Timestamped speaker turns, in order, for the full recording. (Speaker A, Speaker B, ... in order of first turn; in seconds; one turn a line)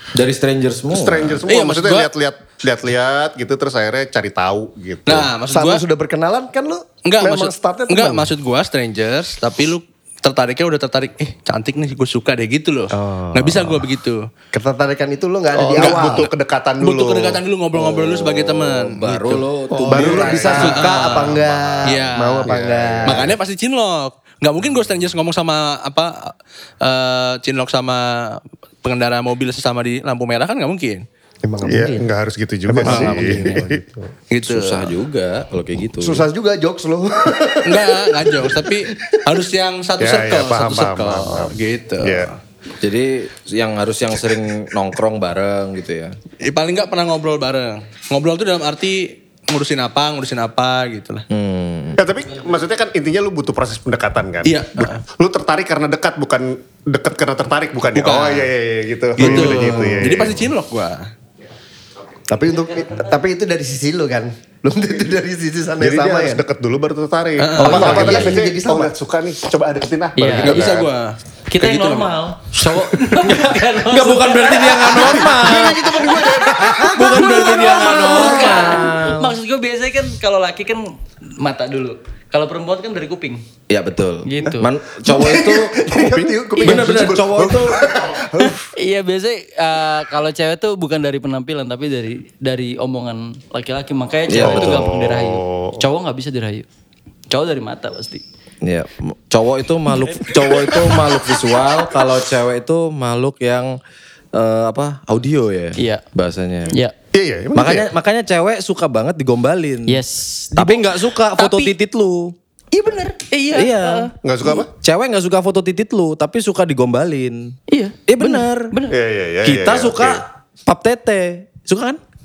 Speaker A: 0.1-1.4
Speaker B: 0.9-5.3
Speaker C: 1.5-2.1
Speaker C: 5.0-5.8
Speaker D: 5.5-8.3
Speaker C: 7.0-14.2
Speaker D: 12.9-13.7
Speaker D: 14.5-16.3
Speaker B: 15.6-17.4
Speaker C: 15.8-19.4
Speaker A: 17.8-21.4
Speaker B: 19.7-20.9
Speaker D: 19.8-23.3
Speaker C: 20.4-22.5
Speaker B: 22.5-23.3
Speaker C: 23.0-31.0
Speaker D: 31.4-32.1
Speaker B: 31.6-34.0
Speaker D: 32.7-33.8
Speaker C: 32.8-33.3
Speaker C: 34.3-34.9
Speaker A: 34.5-36.3
Speaker D: 36.0-39.0
Speaker C: 37.6-42.3
Speaker B: 40.0-42.3
Speaker A: 42.8-46.1
Speaker C: 46.4-51.2
Speaker A: 51.3-52.0
Speaker B: 52.0-60.4
Speaker C: 54.4-55.0
Speaker C: 57.9-58.5
Speaker C: 59.2-61.1
Speaker D: 59.2-59.6
Speaker A: 59.4-59.7
Speaker D: 62.3-66.4
Speaker B: 65.8-70.9
Speaker C: 67.4-68.3
Speaker D: 67.6-68.9
Speaker E: 70.2-70.7
Speaker C: 70.4-72.1
Speaker E: 71.5-75.3
Speaker A: 73.2-75.8
Speaker B: 75.0-76.9
Speaker D: 75.0-77.8
Speaker A: 76.6-79.3
Speaker C: 77.0-78.8
Speaker E: 77.1-83.4
Speaker A: 83.7-85.8
Speaker E: 84.2-84.7
Speaker D: 85.0-88.7
Speaker B: 85.8-87.9
Speaker A: 86.6-87.5
Speaker E: 88.7-96.6
Speaker A: 94.3-94.9
Speaker B: 94.4-95.8
Speaker E: 97.3-98.2
Speaker A: 98.6-103.8
Speaker A: 104.3-106.7
Speaker E: 105.8-106.0
Speaker B: 107.1-107.9
Speaker A: 107.5-110.0
Speaker E: 109.9-111.8
Speaker A: 110.5-112.3
Speaker E: 112.7-114.6
Speaker A: 113.5-114.1
Speaker B: 114.2-114.7
Speaker A: 114.8-117.5
Speaker E: 117.7-119.0
Speaker A: 118.1-118.7
Speaker B: 118.9-120.2
Speaker A: 119.4-122.0